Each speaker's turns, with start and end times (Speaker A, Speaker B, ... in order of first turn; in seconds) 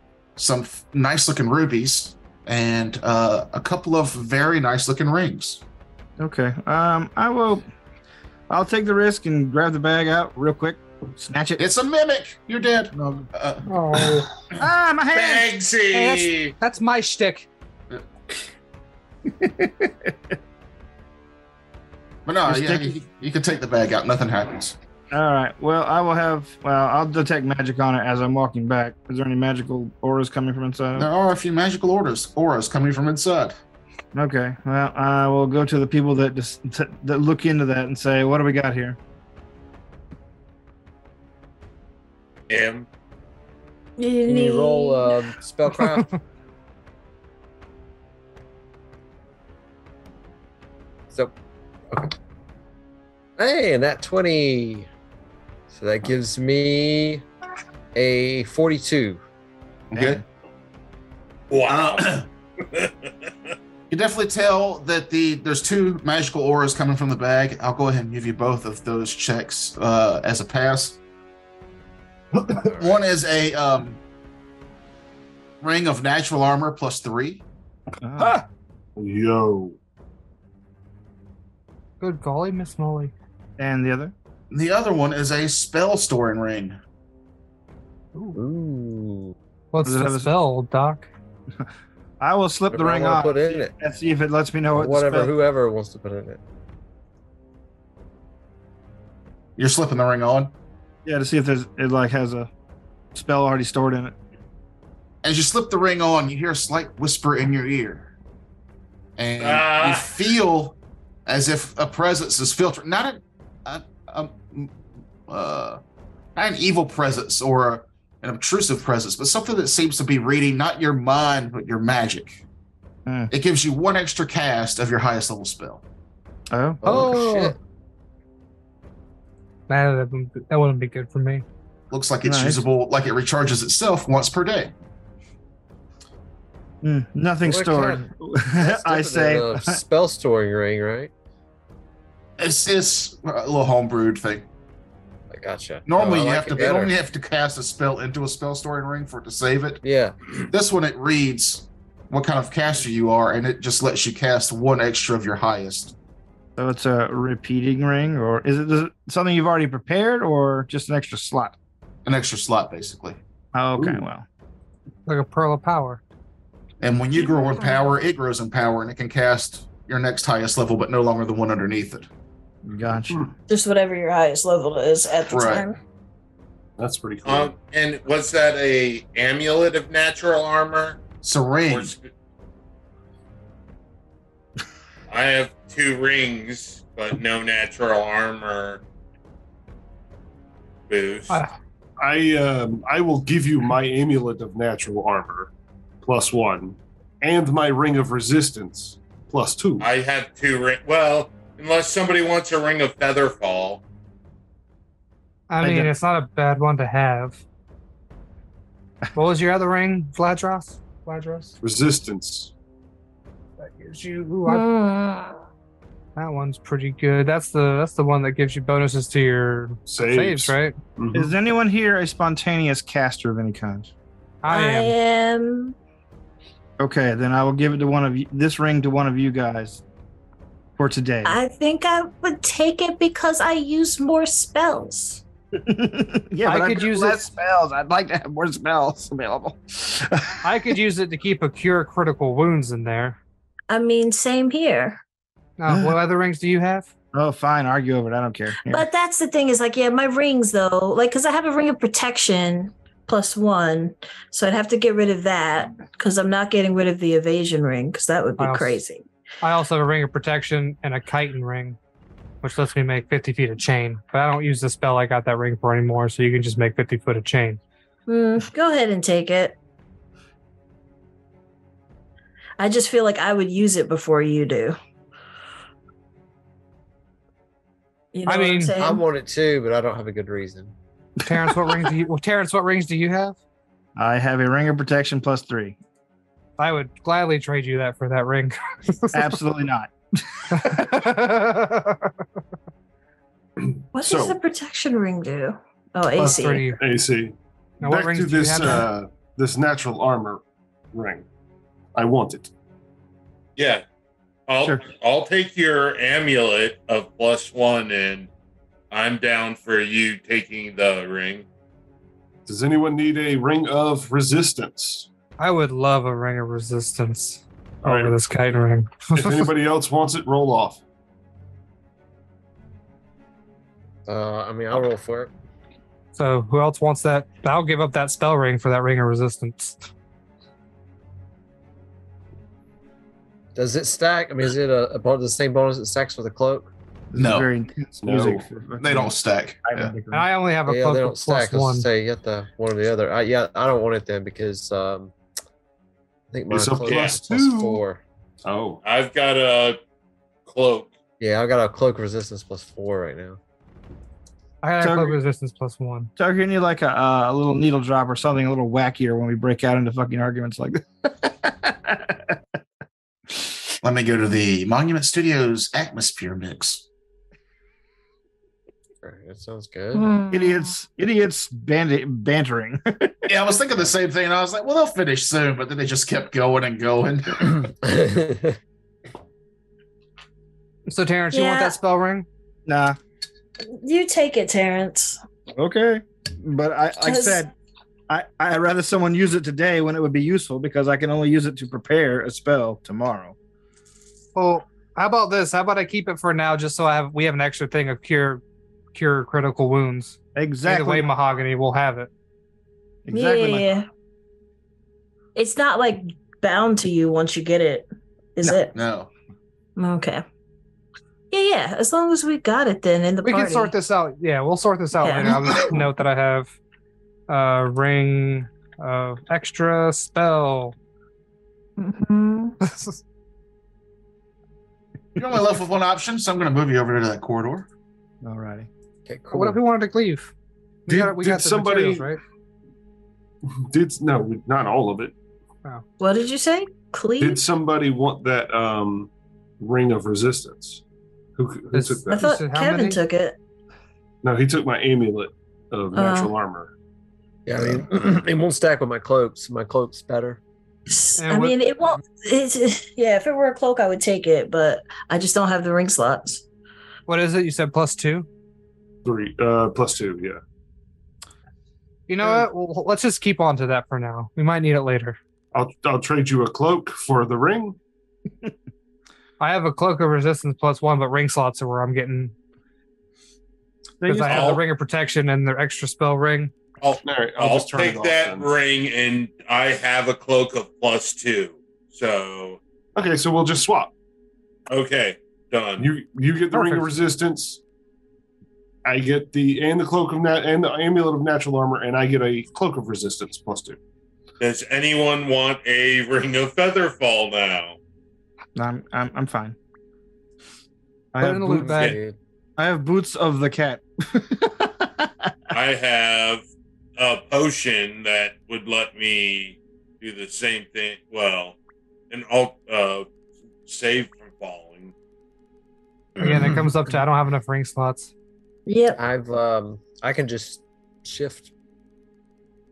Speaker A: 0.4-5.6, 11.6-14.2, 22.3-24.8, 31.0-33.6, 59.9-60.2, 61.7-62.3, 63.9-71.0, 72.6-74.0, 75.6-77.4, 84.5-86.8, 99.6-100.5, 105.2-108.1, 109.2-114.8, 115.3-115.8, 116.4-122.4, 123.3-125.8, 131.9-134.7, 142.4-144.5, 145.9-149.8, 150.5-155.9, 162.1-163.2, 166.8-172.1, 175.3-175.7, 181.2-181.9, 337.2-337.5, 338.8-339.9, 363.8-366.9, 373.3-377.6, 408.7-409.1, 425.2-427.7
Speaker B: 6.2-7.7, 8.5-11.6, 12.9-13.3, 14.6-15.5, 19.3-20.3, 22.4-23.0, 25.1-31.1, 34.1-39.0, 59.9-60.2, 78.0-78.4, 83.6-84.1, 89.8-90.3, 92.2-95.3, 101.0-102.5, 103.1-104.2, 123.1-123.3, 126.5-126.8, 132.2-132.7, 136.8-139.8, 156.6-161.6, 163.5-164.3, 172.6-173.3, 205.6-205.9, 221.1-223.9, 226.8-229.8, 230.8-231.4, 235.6-240.7, 245.7-245.9, 247.1-248.9, 281.5-281.8, 284.0-285.8, 289.1-291.1, 337.1-340.3, 354.8-355.2, 356.2-362.4, 370.3-373.3, 382.7-383.0, 385.5-387.5, 388.1-393.4, 400.4-401.1, 403.1-403.7, 428.2-428.7, 474.0-474.6, 498.6-499.6, 501.1-501.9, 502.6-505.3
Speaker C: 13.7-14.3, 15.9-17.5, 45.8-46.1, 82.0-83.1, 89.7-91.1, 126.8-127.5, 129.7-131.4, 165.1-166.0, 205.5-207.4, 209.2-211.6, 213.6-214.7, 216.2-220.8, 224.4-224.9, 236.5-237.2, 240.4-243.2, 245.6-246.9, 258.4-258.8, 259.4-261.8, 262.4-267.6, 278.3-278.7, 281.2-283.4, 286.6-289.4, 290.5-292.1, 296.2-296.8, 297.8-298.9, 315.4-319.5, 326.1-329.9, 340.1-341.9, 354.6-356.1, 380.9-382.3, 394.4-398.4, 398.9-402.1, 413.2-416.5, 417.3-420.8, 422.6-423.0, 429.3-430.3, 430.9-432.2, 441.7-443.0, 451.2-451.6, 457.1-458.3, 462.1-465.2, 469.4-472.3, 474.1-476.5, 486.5-487.0, 501.2-502.0, 516.2-518.1
Speaker D: 15.1-16.5, 42.5-42.9, 61.5-63.5, 109.4-110.2, 177.2-181.0, 181.7-182.1, 185.1-188.8, 190.9-191.4, 199.8-203.8, 303.6-303.8, 304.5-308.3, 308.9-311.5, 348.9-349.8, 350.5-350.9, 474.3-474.6, 476.8-482.6, 484.7-485.9, 494.4-497.8, 505.5-506.4, 507.0-511.6, 512.1-513.1, 513.7-514.9
Speaker E: 44.0-45.2, 167.2-167.8, 173.5-175.8, 214.4-215.4, 224.5-225.8, 231.2-235.2, 243.7-245.0, 248.7-259.1, 268.1-269.6, 272.6-274.8, 278.1-279.0, 293.9-296.7, 369.9-370.7, 381.3-381.8, 383.7-385.2, 387.0-387.4, 403.1-403.9, 405.4-408.7, 409.8-410.2, 411.3-413.7, 415.0-415.6, 421.8-422.6, 436.0-437.4, 442.1-443.4, 445.9-446.3, 450.9-456.4, 518.7-519.0
Speaker F: 44.2-46.1, 53.4-54.9, 55.7-57.2, 58.0-59.2, 88.3-89.3, 92.7-93.7, 94.7-96.4, 126.8-127.6, 137.4-141.1, 145.3-146.9, 149.8-150.2, 278.8-280.7, 324.1-325.3, 333.6-336.7, 340.7-345.1, 346.3-348.0, 351.2-353.4, 369.0-370.1, 377.8-378.6, 429.1-429.6, 447.5-450.4, 501.5-502.2, 516.2-516.5, 519.0-521.5
Speaker G: 79.0-79.8, 176.8-177.5, 192.0-199.9, 211.6-212.5, 219.9-221.3, 293.6-294.4, 296.7-300.4, 300.9-301.3, 301.9-302.5, 312.5-315.1, 317.8-318.1, 319.1-320.8, 338.0-338.5, 346.5-347.8, 348.4-348.8, 430.9-432.1, 433.5-435.1, 437.2-440.8, 441.4-442.2, 444.2-446.7, 459.0-460.4, 465.5-467.8, 477.0-478.5, 482.9-483.9, 485.8-487.6, 488.9-493.8